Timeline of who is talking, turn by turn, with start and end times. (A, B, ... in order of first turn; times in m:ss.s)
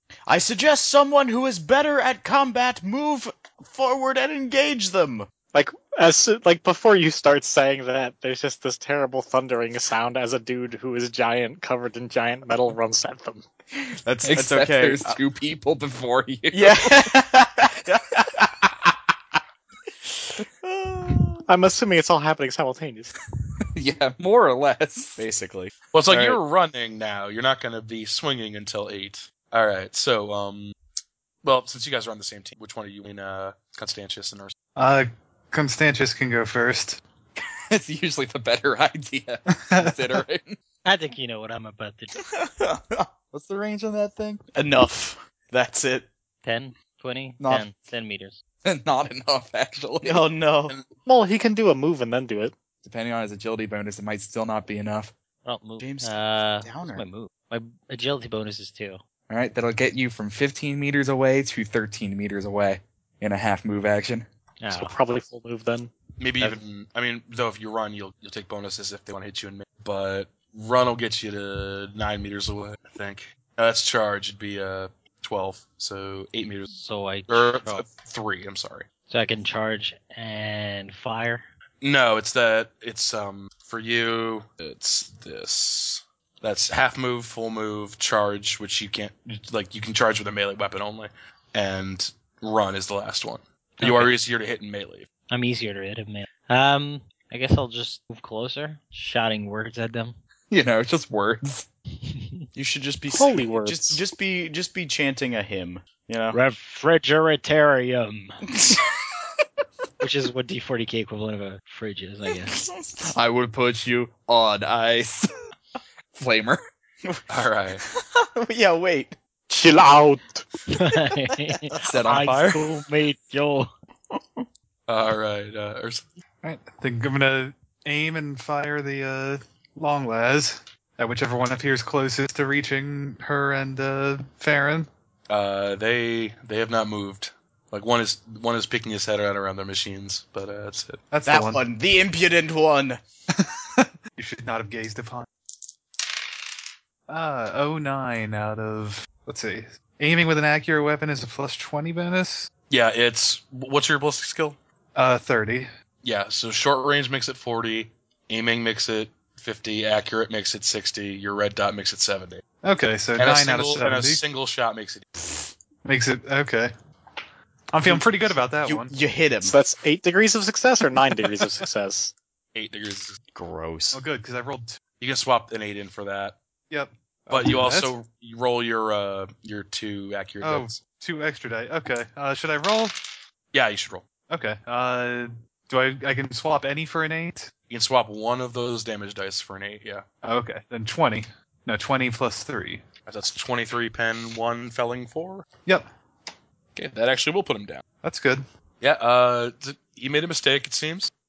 0:00.3-0:05.3 A
0:05.5-0:13.4 B
0:13.8-0:15.2 A
0:14.2-0:17.1 C
0:16.5-0:18.9 A
0:20.4-0:21.4 A
0:21.5-0:23.1 B
0:23.8-0:25.2 C
0:25.2-0:26.4 A
0:25.9-0:30.7 D
0:31.4-0:34.5 D
0:34.8-0:37.0 E
0:37.4-0:40.6 C
0:39.5-0:40.2 E
0:40.8-0:42.2 F
0:42.2-0:43.1 A
0:43.3-0:44.4 C
0:44.6-0:46.1 A
0:46.4-0:48.4 F
0:47.4-0:47.7 C
0:48.6-0:50.3 C
0:50.0-0:50.8 A
0:51.1-0:52.5 B
0:52.8-0:55.1 C
0:55.4-0:59.0 F
0:55.8-0:57.0 A
0:59.3-1:04.3 C
1:04.6-1:04.9 F
1:04.7-1:05.9 B
1:06.2-1:16.7 D
1:16.7-1:17.9 F
1:17.3-1:18.9 D
1:19.1-1:21.4 F
1:21.8-1:35.1 D
1:33.8-1:34.1 F
1:35.3-1:40.2 F
1:40.5-1:41.7 C
1:42.6-1:46.4 A
1:43.1-1:44.0 B
1:46.3-1:48.4 F
1:48.5-1:48.8 A
1:50.0-1:52.6 F
1:52.4-1:53.1 A
1:53.1-1:55.3 C
1:56.2-1:56.6 C
1:57.0-1:57.3 A
1:57.3-1:57.8 D
1:57.8-1:59.2 A
1:59.5-2:00.5 B
2:00.7-2:03.7 F
2:01.8-2:02.6 C
2:04.1-2:04.5 A
2:04.9-2:06.0 D
2:06.4-2:14.9 E
2:15.3-2:21.0 D
2:21.1-2:21.6 E
2:21.3-2:23.0 A
2:23.4-2:25.3 E
2:27.1-2:32.5 E
2:32.7-2:34.6 D
2:35.0-2:35.7 E
2:36.0-2:42.4 D
2:42.6-2:44.2 E
2:43.2-2:45.0 D
2:45.8-2:46.7 E
2:47.7-2:48.9 E
2:47.9-2:49.6 A
2:49.4-2:52.1 B
2:52.6-2:53.2 D
2:53.4-2:54.0 A
2:53.9-2:54.8 E
2:55.0-2:56.4 D
2:56.7-2:57.9 E
2:57.3-3:00.8 D
3:00.4-3:03.0 E
3:03.5-3:04.0 D
3:04.3-3:07.5 E
3:07.7-3:10.0 D
3:10.2-3:12.8 E
3:13.1-3:15.4 D
3:16.8-3:17.8 D
3:18.0-3:18.4 E
3:18.8-3:21.1 D